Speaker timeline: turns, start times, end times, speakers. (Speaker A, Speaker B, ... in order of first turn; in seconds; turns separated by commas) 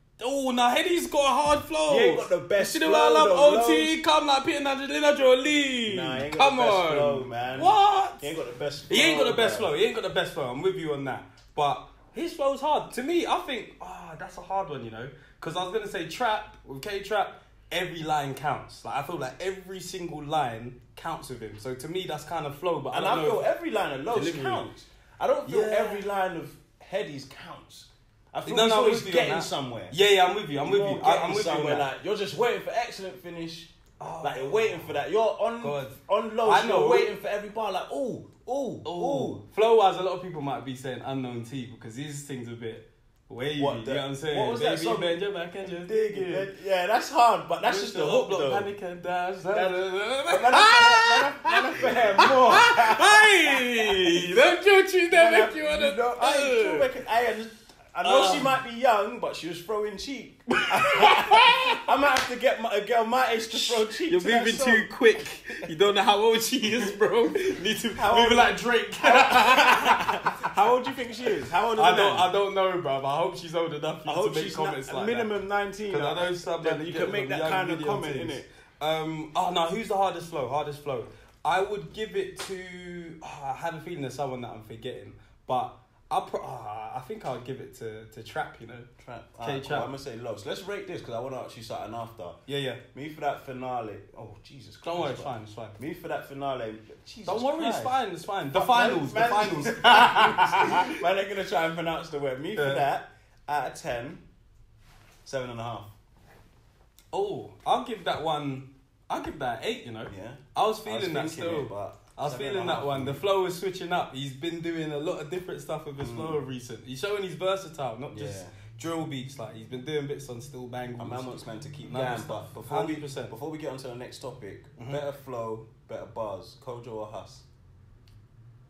Speaker A: 0.2-8.3, Speaker B: 1.9-4.0, Speaker B: 5.8-9.7, Speaker A: 8.9-23.5, Speaker B: 22.9-30.0, Speaker A: 24.1-24.6, Speaker A: 25.4-26.0, Speaker A: 28.4-31.9, Speaker B: 30.6-39.4, Speaker A: 34.0-35.0, Speaker A: 35.6-37.1, Speaker A: 38.8-46.5, Speaker B: 43.6-48.7, Speaker A: 47.6-56.9, Speaker B: 49.5-54.3, Speaker B: 55.1-65.0, Speaker A: 58.0-58.5, Speaker A: 60.8-61.8, Speaker A: 63.5-70.2, Speaker B: 67.9-72.3, Speaker A: 71.7-75.3, Speaker B: 74.0-78.5, Speaker A: 75.9-88.9, Speaker B: 89.0-92.4, Speaker A: 89.4-89.9, Speaker A: 92.5-92.8, Speaker B: 92.9-98.0, Speaker A: 94.8-95.8, Speaker A: 97.2-100.9, Speaker B: 98.5-104.2, Speaker A: 102.5-102.8, Speaker B: 105.2-105.9, Speaker A: 107.1-123.3, Speaker B: 110.1-113.2, Speaker B: 116.0-116.5, Speaker B: 118.1-118.6, Speaker B: 121.0-127.5, Speaker A: 124.8-125.0